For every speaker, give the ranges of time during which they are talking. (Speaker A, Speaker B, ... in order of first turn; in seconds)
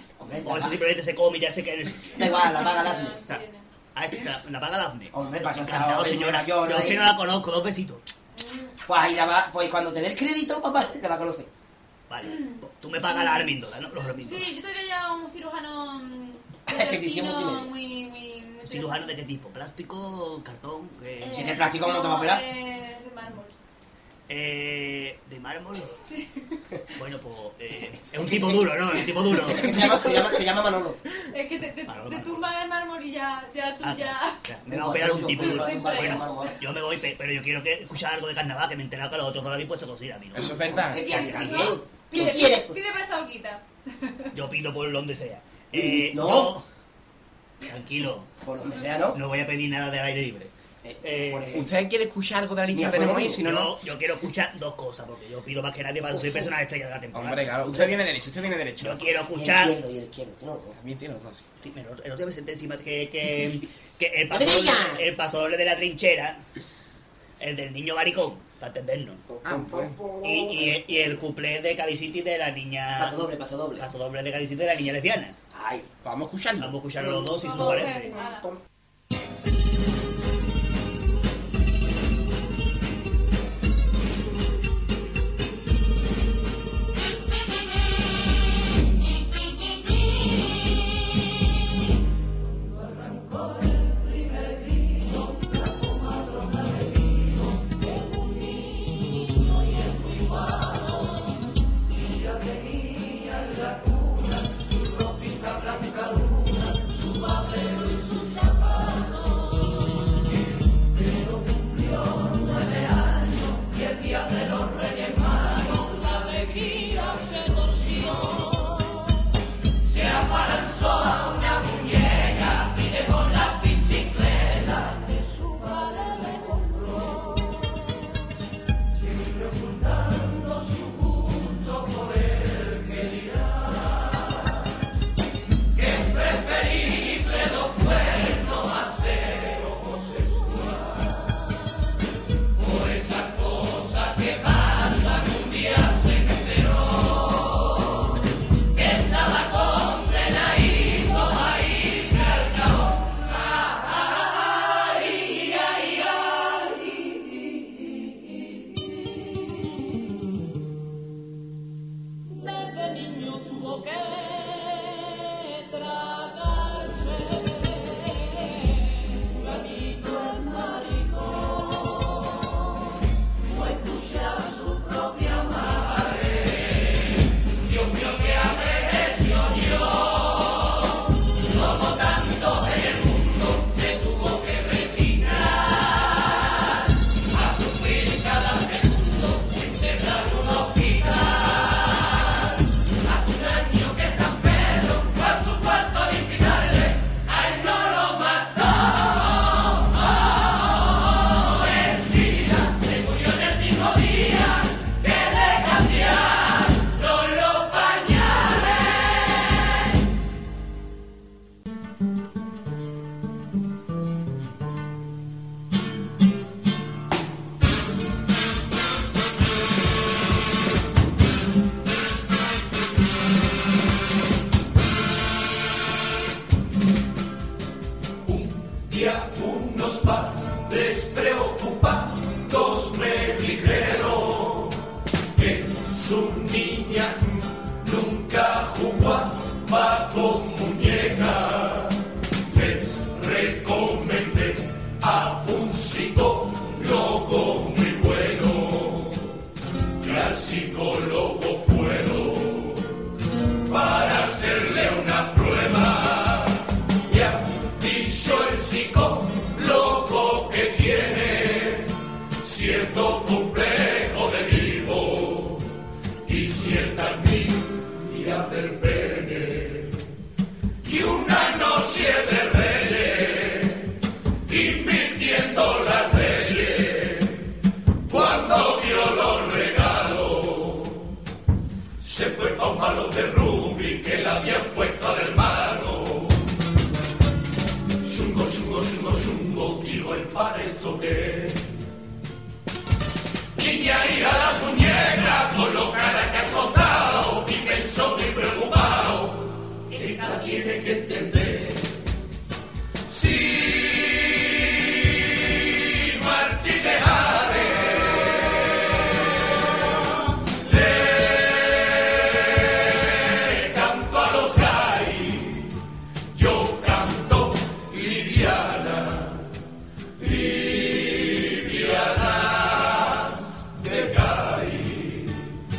Speaker A: 0.2-0.8, 2.2-3.2, 5.1-7.1, 8.8-11.5, 16.7-17.7, 21.3-22.4, 28.2-31.0, 34.7-36.6, 40.6-42.8, 45.7-46.6, 48.4-49.2, 50.8-51.7, 52.7-53.4, 56.1-56.5, 57.6-58.0, 59.3-60.8, 64.3-65.1, 69.5-70.6, 73.0-73.9, 75.5-75.9
Speaker B: 0.4-2.7, 4.0-8.0, 12.1-14.5, 18.7-21.6, 24.3-26.0, 27.0-30.0, 31.9-32.5, 33.8-40.6, 44.3-46.7, 47.6-48.3, 49.1-51.6, 53.4-57.8, 58.8-59.8, 61.6-66.4, 67.4-69.4, 70.2-75.4, 76.6-78.2
Speaker C: 2.5-3.7, 8.4-8.8, 12.2-13.5, 14.2-19.1, 21.2-23.5, 26.1-26.6, 31.3-34.4, 35.3-36.5, 40.9-44.3, 77.4-78.5
Speaker D: 40.3-41.6, 51.5-53.7, 57.1-59.0, 60.7-61.5, 69.4-70.1, 76.0-76.8
Speaker E: 194.9-195.2, 195.9-196.5, 197.5-198.5, 203.5-204.4, 205.3-206.2, 207.2-208.2, 228.2-234.8, 235.3-249.3, 250.0-253.0, 253.7-265.7, 266.2-270.0, 270.8-274.0, 274.5-277.5, 278.1-281.0, 282.0-286.4, 288.0-291.7, 293.6-302.0, 303.1-308.8, 310.5-315.7, 316.3-319.5, 320.2-325.4